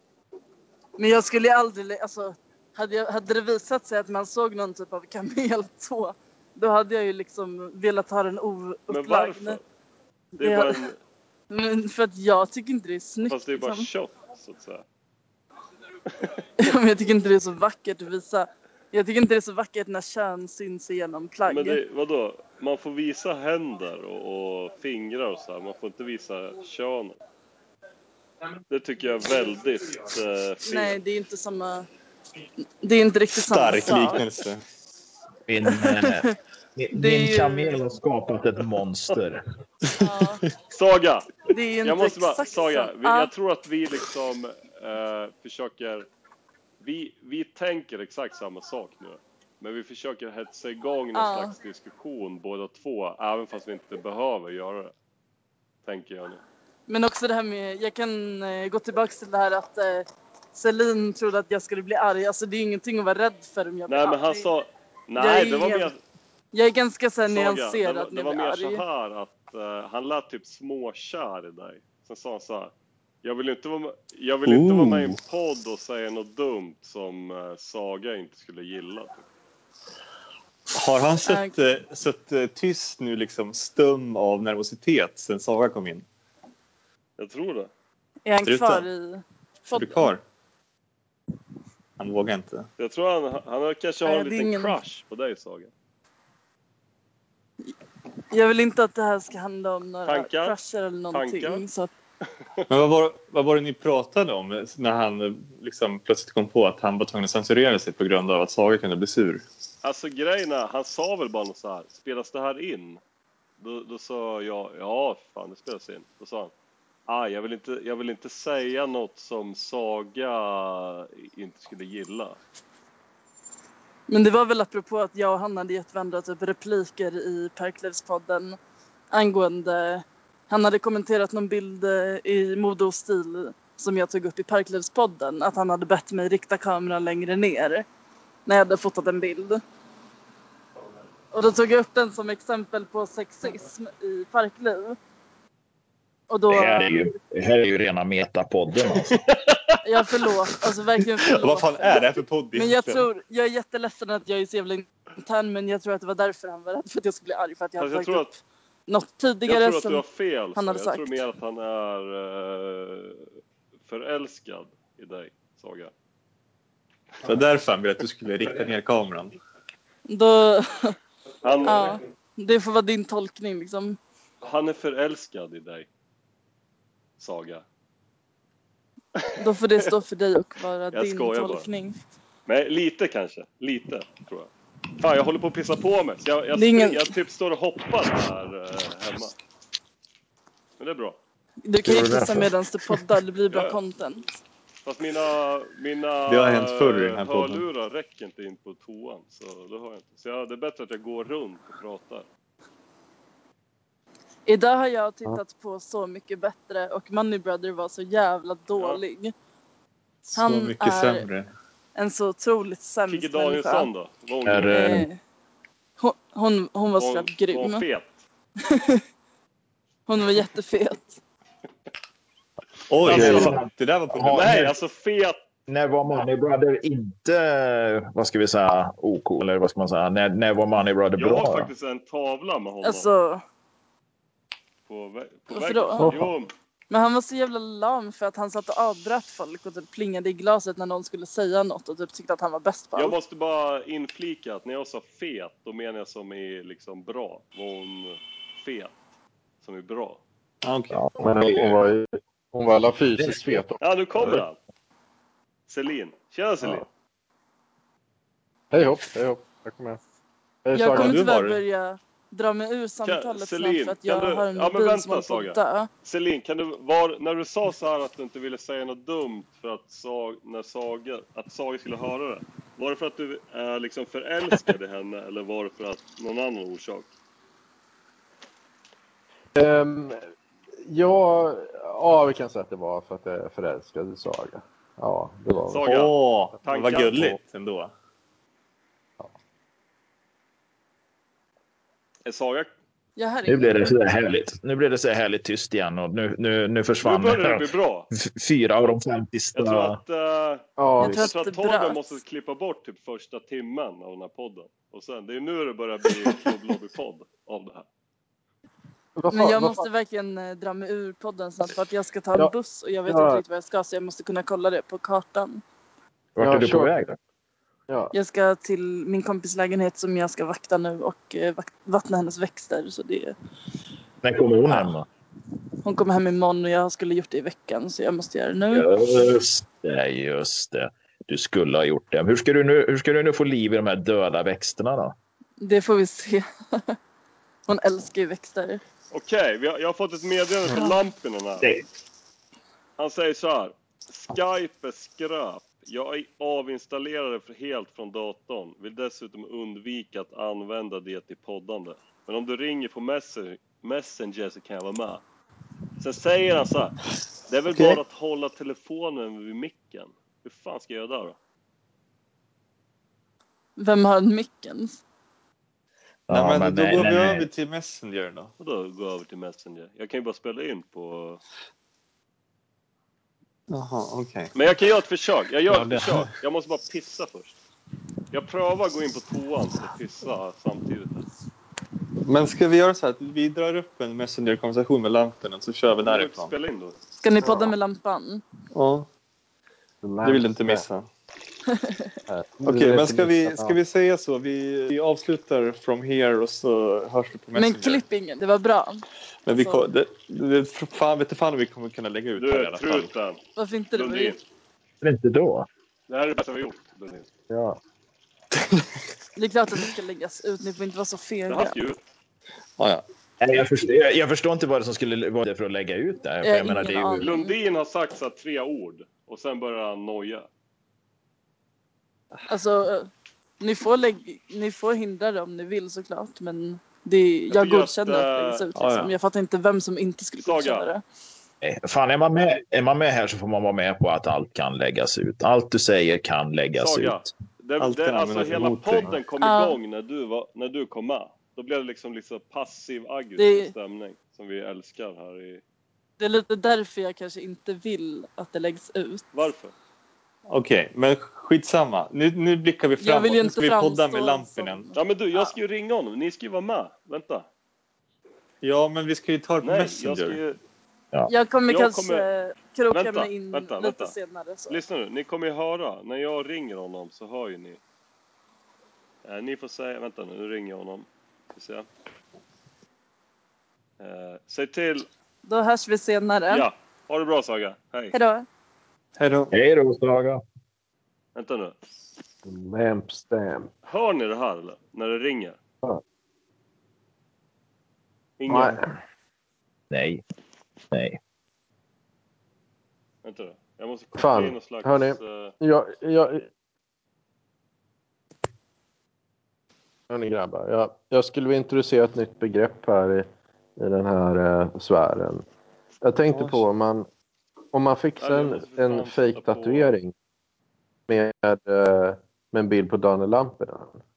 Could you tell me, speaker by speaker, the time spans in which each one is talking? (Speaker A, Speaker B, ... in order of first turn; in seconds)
Speaker A: 1.0-9.6, 10.4-10.9, 11.5-13.9, 16.6-21.8, 30.6-31.9, 32.8-34.3, 35.6-36.4, 36.9-37.8, 40.0-40.4, 41.5-43.3, 51.1-51.5, 56.9-64.5, 65.2-65.9, 66.5-68.8, 81.3-81.5, 88.3-90.1, 94.0-94.8, 98.3-101.9, 124.1-128.6, 129.1-137.8, 138.5-139.6, 141.3-145.0, 146.3-147.0, 149.8-161.3, 170.1-170.9, 171.7-174.0, 179.4-182.0, 186.5-187.1, 191.7-194.3, 204.5-209.3, 210.3-211.3, 212.0-213.9, 214.7-215.2, 216.0-217.8, 218.6-219.0, 220.1-221.2, 232.8-233.4, 235.5-236.2, 236.9-243.2, 260.7-265.9, 293.2-293.9, 301.0-302.2, 309.3-315.6, 318.1-323.4, 325.8-329.3, 335.6-337.0, 337.7-338.8, 363.8-365.0, 387.2-388.4, 391.7-392.1, 397.6-399.1, 399.6-399.8, 403.6-404.4, 409.4-411.8, 416.4-417.5, 422.5-431.0, 439.4-439.8, 443.4-443.7, 446.2-449.3, 453.0-455.4, 461.3-464.8, 475.5-476.7, 478.1-478.5
Speaker B: 8.9-9.6, 10.4-11.0, 13.3-14.8, 21.5-27.2, 28.7-31.0, 40.7-41.3, 41.8-46.1, 46.8-54.9, 55.9-56.4, 63.9-66.0, 67.3-72.7, 73.2-79.3, 87.2-87.7, 92.8-95.7, 100.1-100.5, 101.1-101.7, 109.8-113.0, 113.6-116.5, 117.1-122.4, 157.8-158.3, 159.5-163.3, 163.9-165.9, 171.4-172.0, 174.4-175.9, 177.2-177.7, 180.9-181.7, 182.5-189.4, 190.8-191.2, 193.5-193.8, 194.8-202.3, 208.8-209.0, 213.1-215.0, 217.0-218.2, 223.0-223.6, 224.3-225.4, 231.2-233.1, 234.9-236.5, 242.9-248.9, 249.6-250.2, 253.8-254.6, 255.7-256.9, 263.0-277.1, 285.7-287.3, 292.3-292.7, 297.0-298.1, 299.6-307.9, 339.1-341.7, 343.0-355.2, 356.0-361.4, 368.6-371.4, 374.6-377.6, 378.3-381.3, 386.0-387.0, 402.4-403.4, 404.0-404.4, 406.1-407.3, 411.5-412.0, 417.2-420.5, 427.5-428.7, 430.4-430.9, 436.8-445.6, 449.3-449.7, 454.9-457.5, 459.6-460.6, 461.7-462.3, 462.9-464.1, 464.7-467.8, 469.2-471.9, 474.0-475.1, 476.5-478.1, 481.4-481.8, 483.9-485.6, 488.4-488.8, 493.2-495.6, 508.2-509.9
Speaker C: 33.4-34.6, 74.5-75.2, 80.7-86.1, 88.4-88.9, 89.7-90.2, 92.0-92.7, 102.7-109.4, 151.3-153.1, 167.2-169.3, 196.3-197.6, 210.3-211.5, 222.9-224.8, 250.6-251.1, 260.9-261.6, 285.8-287.9, 366.3-368.5, 373.7-374.5, 375.8-376.2, 382.2-386.5, 388.7-389.1, 390.2-391.1, 392.6-398.0, 399.5-403.1, 412.8-413.0, 428.8-429.1, 437.8-439.2, 450.5-454.9, 458.6-460.4, 479.2-479.5, 506.3-506.6
Speaker D: 35.5-39.4, 146.5-149.2, 191.8-192.5, 214.5-215.1, 223.0-224.6, 225.7-231.7, 250.9-251.7, 253.2-253.6, 293.5-300.0, 316.4-317.2, 324.2-325.1, 328.7-335.1, 366.3-367.5, 405.0-405.7, 413.4-417.3, 431.6-437.3, 479.5-480.4, 489.9-490.2, 490.9-491.2
Speaker E: 251.2-254.4, 258.7-260.0, 260.6-261.2, 279.6-280.2, 280.9-285.9, 300.8-301.2, 309.2-309.9, 313.1-313.4, 316.4-316.9, 317.9-318.1, 387.4-387.7, 390.0-390.9, 392.3-393.8, 407.5-407.8, 482.4-483.7, 488.5-489.0, 494.1-496.5, 500.1-505.4, 506.0-507.1, 507.7-510.1, 511.1-514.0